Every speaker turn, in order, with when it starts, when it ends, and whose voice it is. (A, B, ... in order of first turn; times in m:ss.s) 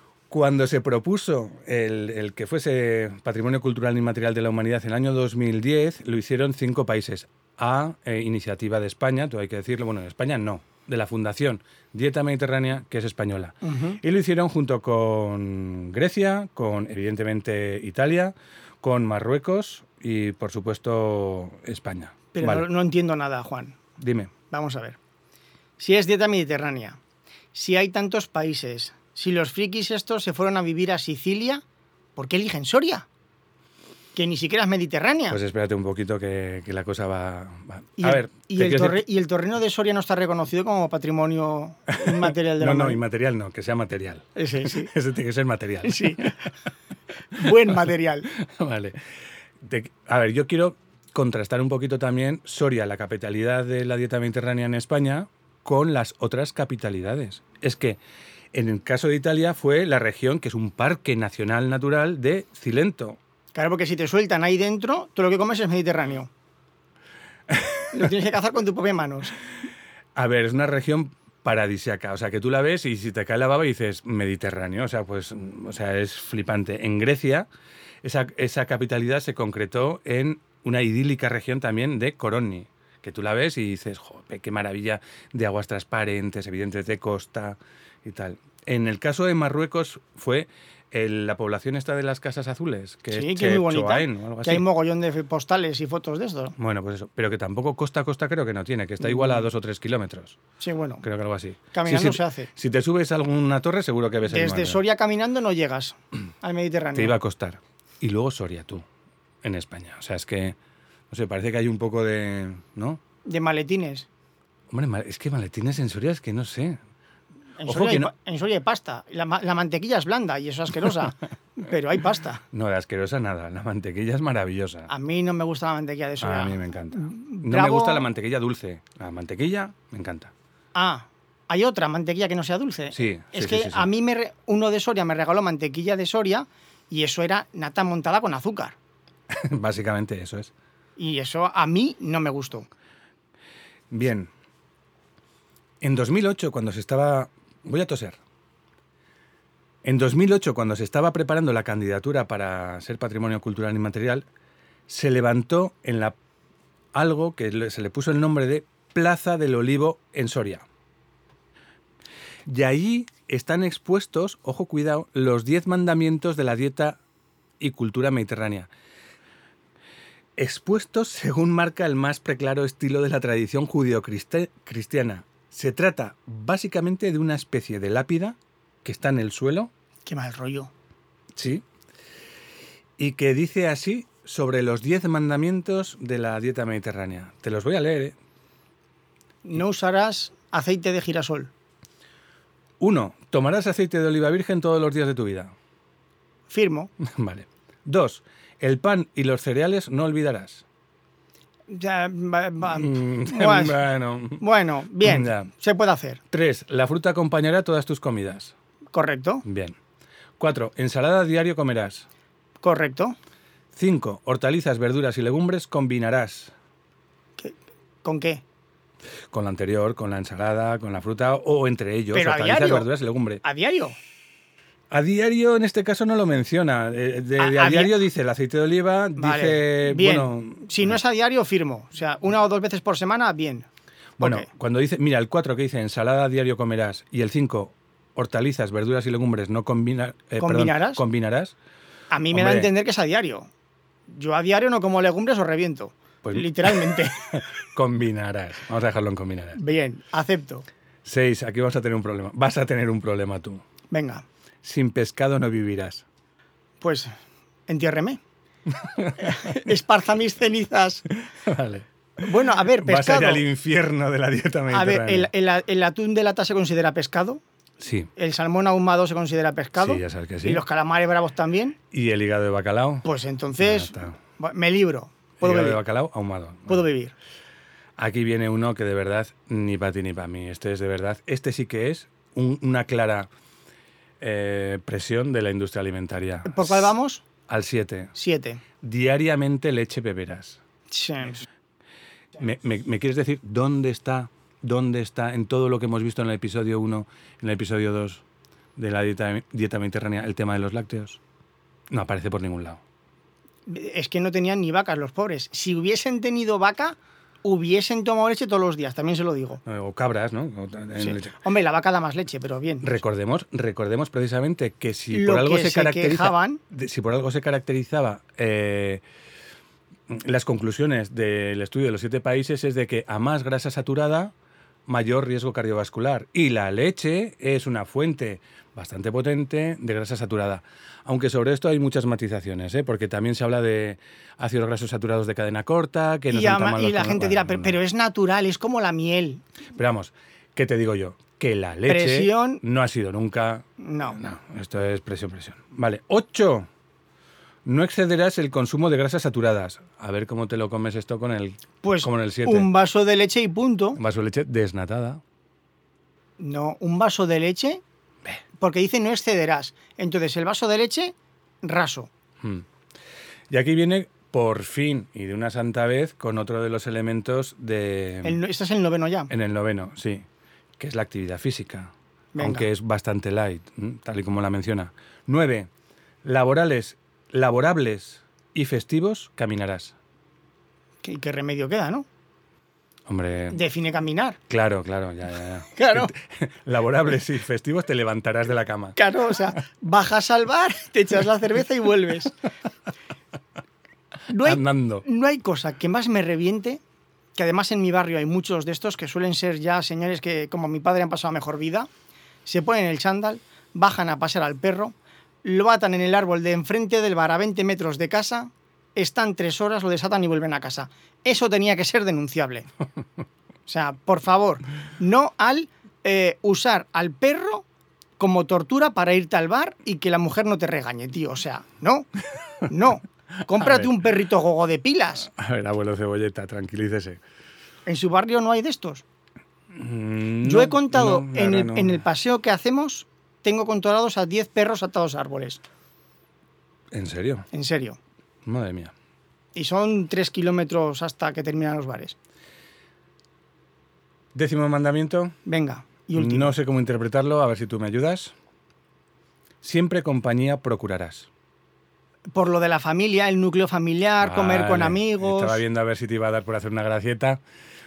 0:00.3-0:22.7 A
0:13.6-0:14.0 B
0:22.3-0:23.8 B
0:24.0-0:24.3 A
0:24.5-0:25.0 B
0:25.8-0:27.0 B
0:27.5-0:31.6 B
0:32.2-0:33.1 B
0:34.1-0:35.4 B
0:35.3-0:39.0 A
0:38.0-0:43.0 B
0:41.9-0:46.3 A
0:44.4-0:44.9 B
0:45.8-0:46.3 B
0:47.3-0:48.3 B
0:48.3-0:49.0 A
0:49.6-0:58.0 A
0:58.5-1:03.2 A
1:03.5-1:06.3 B
1:07.5-1:07.9 A
1:07.9-1:09.4 B
1:10.1-1:17.5 A
1:18.0-1:34.6 A
1:33.1-1:36.6 B
1:36.6-1:40.4 A
1:40.6-1:41.0 B
1:41.0-1:44.8 A
1:41.7-1:42.5 B
1:44.3-1:47.1 B
1:46.9-1:48.8 A
1:49.4-1:50.6 A
1:51.1-1:53.0 A
1:53.2-1:54.1 B
1:54.7-1:56.8 A
1:57.6-2:02.4 B
1:57.6-1:58.1 A
2:02.5-2:04.9 A
2:04.9-2:08.1 B
2:06.2-2:10.3 A
2:10.7-2:18.8 B
2:12.9-2:13.9 A
2:19.3-2:20.5 A
2:21.0-2:22.7 B
2:23.9-2:24.3 A
2:25.8-2:28.2 A
2:29.8-2:34.3 A
2:34.9-2:36.2 A
2:36.9-2:40.6 A
2:42.4-2:47.0 A
2:47.6-2:48.7 A
2:50.4-2:59.7 A
3:00.0-3:00.7 B
3:01.3-3:01.6 A
3:03.0-3:08.2 A
3:09.4-3:11.5 B
3:12.8-3:15.5 A
3:16.5-3:16.9 B
3:17.0-3:20.6 A
3:21.7-3:23.8 B
3:22.6-3:24.4 A
3:24.4-3:26.2 B
3:25.0-3:25.5 A
3:26.3-3:28.5 A
3:28.9-3:29.4 B
3:29.4-3:29.8 A
3:30.4-3:32.0 A
3:32.6-3:33.2 B
3:33.7-3:36.5 A
3:37.4-3:38.4 B
3:39.3-3:43.4 A
3:42.1-3:42.9 B
3:43.4-3:44.0 B
3:44.9-3:50.9 A
3:47.4-3:47.9 B
3:49.2-3:53.7 B
3:54.2-4:01.5 A
3:54.2-3:54.5 B
4:00.4-4:01.0 B
4:02.1-4:03.5 B
4:02.3-4:02.7 A
4:04.1-4:07.2 B
4:06.2-4:09.6 A
4:09.6-4:10.6 B
4:11.0-4:13.6 A
4:13.9-4:14.2 B
4:14.6-4:16.0 A
4:16.8-4:17.1 B
4:17.7-4:18.2 B
4:19.0-4:19.4 A
4:19.2-4:21.0 B
4:21.3-4:21.9 A
4:22.2-4:23.4 B
4:22.7-4:25.3 A
4:24.7-4:27.4 B
4:27.8-4:28.1 A
4:28.2-4:31.8 B
4:29.8-4:30.6 A
4:31.9-4:33.1 A
4:33.0-4:35.8 B
4:33.6-4:34.2 A
4:35.4-4:36.8 A
4:36.7-4:37.1 B
4:38.0-4:43.3 A
4:44.2-4:46.9 A
4:46.4-4:47.2 B
4:47.4-4:48.1 A
4:48.2-4:48.6 B
4:48.8-4:50.6 A
4:50.9-4:51.4 B
4:52.4-4:58.2 A
4:58.8-5:01.2 A
5:01.9-5:02.8 A
5:03.6-5:09.6 B
5:09.6-5:11.4 A
5:11.0-5:12.8 B
5:12.8-5:19.0 A
5:15.1-5:16.6 B
5:20.1-5:24.3 A
5:24.9-5:37.8 A
5:36.3-5:39.4 B
5:39.7-5:46.7 A
5:41.9-5:42.6 B
5:43.8-5:44.2 B
5:47.6-5:52.7 A
5:51.8-5:54.0 B
5:54.0-5:55.2 A
5:56.4-5:57.8 B
5:58.6-6:02.1 B
6:03.5-6:08.4 A
6:08.2-6:09.3 B
6:09.3-6:10.2 A
6:10.8-6:15.7 A
6:12.3-6:12.7 B
6:16.2-6:19.9 A
6:21.0-6:22.0 B
6:23.1-6:23.6 A
6:23.5-6:24.4 B
6:24.5-6:29.0 A
6:25.7-6:26.1 B
6:29.0-6:32.3 B
6:34.3-6:36.8 B
6:34.4-6:35.0 A
6:37.3-6:41.9 B
6:42.4-6:52.7 B
6:53.6-6:57.6 B
6:58.2-7:02.1 B
7:02.6-7:05.3 B
7:03.6-7:03.9 A
7:05.3-7:07.2 A
7:07.8-7:09.0 B
7:09.7-7:12.0 A
7:10.4-7:15.6 B
7:16.9-7:17.5 A
7:17.5-7:18.0 B
7:18.4-7:18.9 A
7:19.5-7:22.2 B
7:24.3-7:25.4 A
7:25.4-7:26.5 B
7:26.1-7:28.3 A
7:29.6-7:31.3 A
7:32.3-7:35.6 B
7:34.2-7:37.4 A